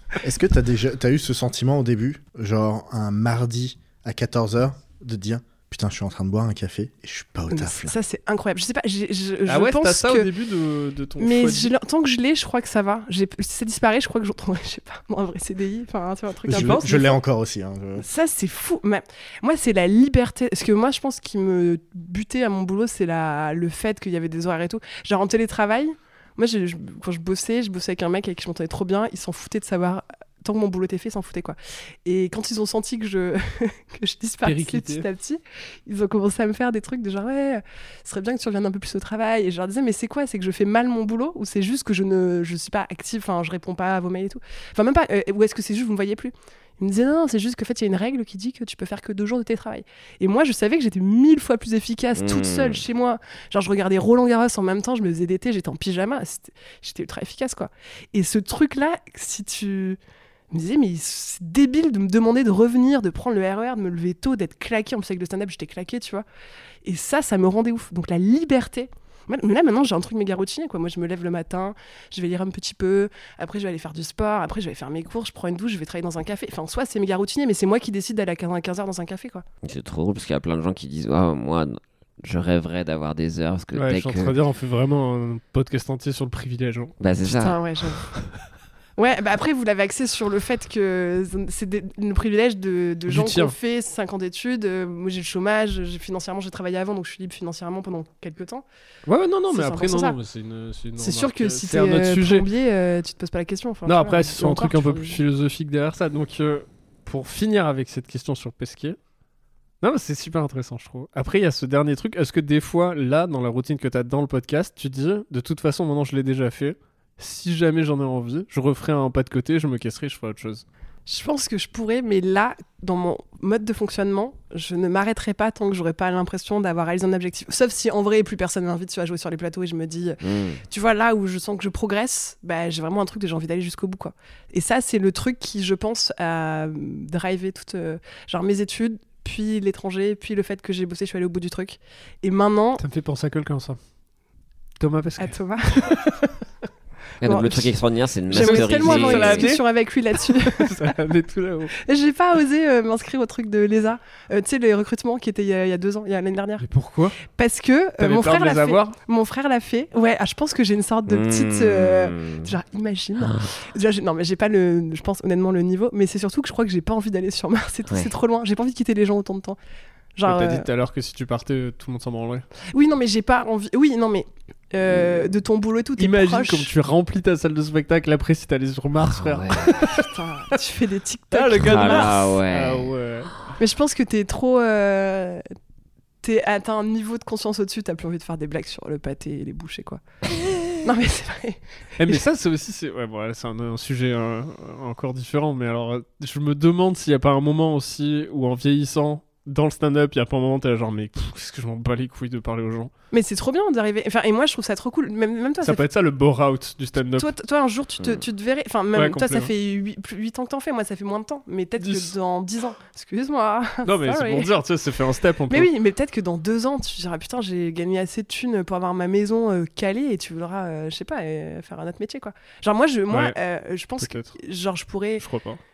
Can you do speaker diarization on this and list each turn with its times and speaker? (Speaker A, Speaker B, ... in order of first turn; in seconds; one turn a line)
Speaker A: 0.2-8.0
Speaker B: 7.5-10.3
Speaker C: 9.5-11.7
Speaker B: 11.2-17.1
Speaker A: 16.5-18.0
Speaker C: 16.6-16.9
Speaker B: 18.0-60.0
Speaker C: 34.4-35.0
Speaker D: 52.1-52.8
Speaker B: 60.5-66.2
Speaker B: 66.8-79.4
Speaker D: 79.6-84.3
Speaker C: 83.7-86.9
Speaker D: 87.0-87.6
Speaker B: 87.2-88.1
Speaker B: 89.0-98.6
Speaker C: 93.1-93.5
Speaker C: 99.0-102.5
Speaker B: 99.5-100.2
Speaker B: 101.0-105.2
Speaker C: 103.8-109.0
Speaker C: 109.8-120.6
Speaker B: 121.1-142.8
Speaker D: 130.2-130.6
Speaker C: 142.8-143.8
Speaker C: 144.8-146.1
Speaker B: 145.2-146.2
Speaker D: 147.2-149.5
Speaker B: 147.2-147.7
Speaker B: 148.3-150.7
Speaker C: 148.3-149.6
Speaker C: 150.3-151.7
Speaker B: 151.8-156.7
Speaker C: 156.6-157.2
Speaker B: 157.2-169.6
Speaker C: 158.0-159.0
Speaker D: 161.1-162.6
Speaker D: 163.2-163.5
Speaker B: 170.2-170.7
Speaker C: 170.2-172.4
Speaker B: 172.7-176.7
Speaker C: 176.0-180.1
Speaker D: 179.0-179.7
Speaker B: 179.9-182.2
Speaker C: 181.3-183.3
Speaker D: 181.6-182.9
Speaker B: 183.6-185.4
Speaker B: 186.2-190.0
Speaker B: 190.8-192.2
Speaker C: 192.0-202.9
Speaker B: 203.1-205.8
Speaker C: 205.6-207.3
Speaker B: 207.1-214.5
Speaker C: 208.9-209.5
Speaker C: 211.8-212.1
Speaker C: 213.8-215.7
Speaker B: 215.5-225.2
Speaker C: 223.1-223.3
Speaker C: 224.0-224.3
Speaker C: 225.2-225.6